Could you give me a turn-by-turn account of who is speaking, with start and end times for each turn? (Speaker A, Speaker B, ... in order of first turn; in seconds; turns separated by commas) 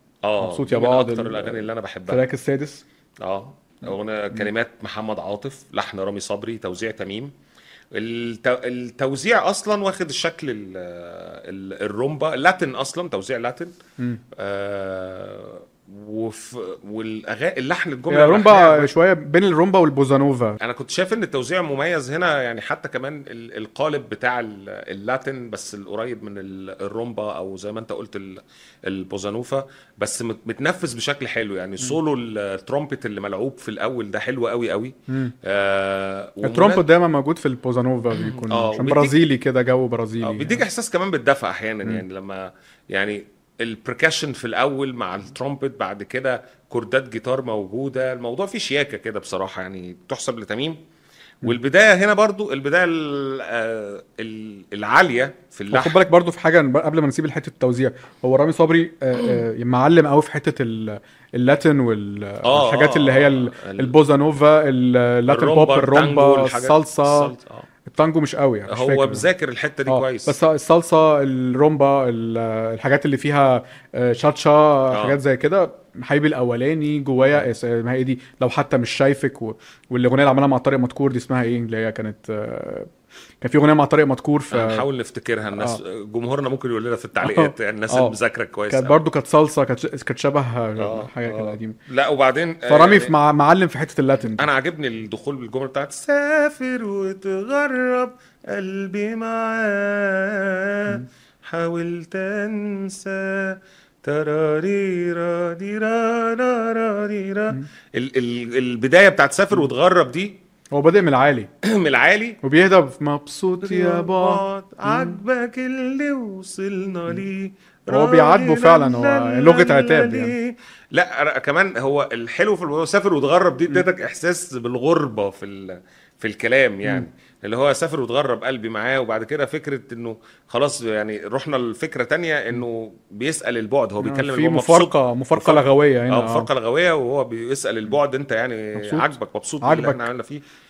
Speaker A: 0.2-2.2, Speaker B: 0.4-2.8, Speaker A: 3.2-7.3, Speaker A: 7.9-13.7, Speaker A: 14.3-18.9, Speaker B: 18.1-20.6, Speaker A: 20.6-36.8, Speaker B: 36.4-40.6, Speaker A: 38.1-39.1, Speaker A: 40.2-50.8, Speaker A: 51.4-56.0, Speaker B: 55.7-67.3, Speaker A: 59.2-59.4, Speaker A: 62.4-63.9, Speaker A: 65.3-67.7, Speaker B: 67.9-69.3, Speaker A: 68.7-70.4, Speaker B: 69.9-84.8, Speaker A: 74.9-75.2, Speaker A: 84.5-89.0, Speaker B: 85.5-85.8, Speaker B: 87.2-88.2, Speaker B: 88.7-91.8, Speaker A: 90.8-93.1, Speaker B: 92.7-94.5, Speaker A: 94.3-110.4, Speaker B: 110.7-111.5, Speaker A: 111.6-112.4, Speaker B: 112.4-115.2, Speaker A: 113.6-140.4, Speaker B: 117.9-120.3, Speaker B: 134.0-136.5, Speaker B: 138.8-140.1